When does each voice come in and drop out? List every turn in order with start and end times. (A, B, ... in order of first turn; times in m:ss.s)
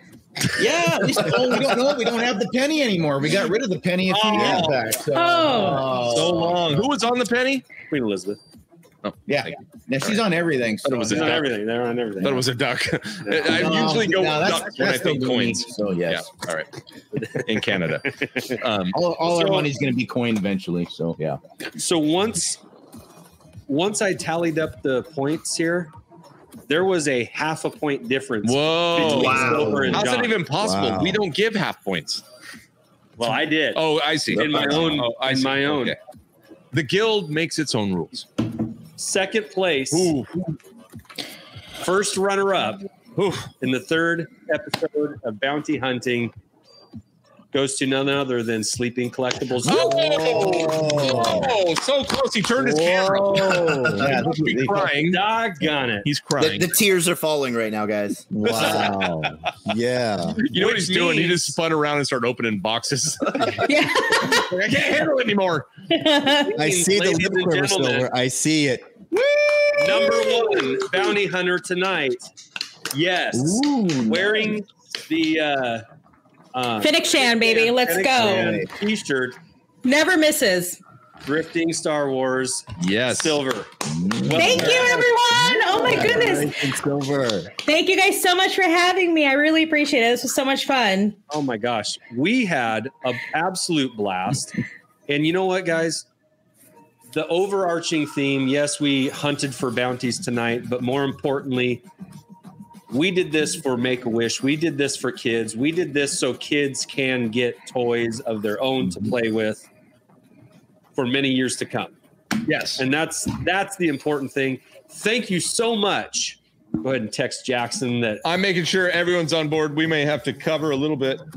0:00.5-0:01.8 A
0:00.6-0:06.8 B
0:04.1-0:04.9 C
0:04.3-0:04.7 A
0:04.4-0:04.6 D
0:05.1-0:05.9 E
0:05.8-0:07.7 A
0:07.9-0:08.4 C
0:09.0-0:10.2 A
0:09.3-0:11.4 B
0:10.8-0:11.5 A
0:10.9-0:12.5 C
0:12.2-0:16.8 A
0:13.3-0:13.9 C
0:13.4-0:16.3 B
0:17.1-0:18.6 C
0:17.4-0:19.0 A
0:18.9-0:21.4 B
0:19.2-0:19.7 C
0:21.8-0:22.6 C
0:23.7-0:25.9 C
0:26.7-0:30.5 C
0:28.4-0:32.2 A
0:29.0-0:30.0 B
0:30.6-0:31.2 D
0:33.2-0:36.0 C
0:33.7-0:36.0 A
0:36.7-0:38.3 A
0:39.0-0:40.1 C
0:39.9-0:40.3 A
0:41.8-0:42.9 C
0:43.2-0:43.5 A
0:43.4-0:46.3 C
0:47.5-0:51.2 C
0:49.6-0:55.2 A
0:50.0-0:51.4 B
0:50.4-0:51.6 D
0:52.6-0:54.2 D
0:53.4-0:54.9 B
0:55.0-0:56.1 C
0:56.0-0:56.7 A
0:56.4-0:58.8 F
0:58.3-1:00.4 D
0:58.4-0:59.3 A
1:00.4-1:05.7 A
1:00.5-1:01.6 C
1:03.6-1:04.5 E
1:05.9-1:06.5 E
1:06.2-1:08.1 C
1:06.5-1:09.2 D
1:09.8-1:12.3 C
1:12.9-1:15.9 C
1:13.3-1:14.5 D
1:16.5-1:19.4 C
1:16.8-1:18.5 E
1:18.2-1:18.7 D
1:19.8-1:20.8 E
1:21.2-1:25.2 C
1:22.8-1:23.4 A
1:24.1-1:27.5 D
1:24.4-1:26.5 E
1:25.7-1:26.3 C
1:27.6-1:31.2 E
1:31.3-1:34.6 C
1:35.1-1:36.1 C
1:37.1-1:41.9 C
1:42.9-1:49.7 C
1:51.0-1:52.0 C
1:52.4-1:52.8 A
1:52.8-1:58.2 C
1:58.2-2:01.2 A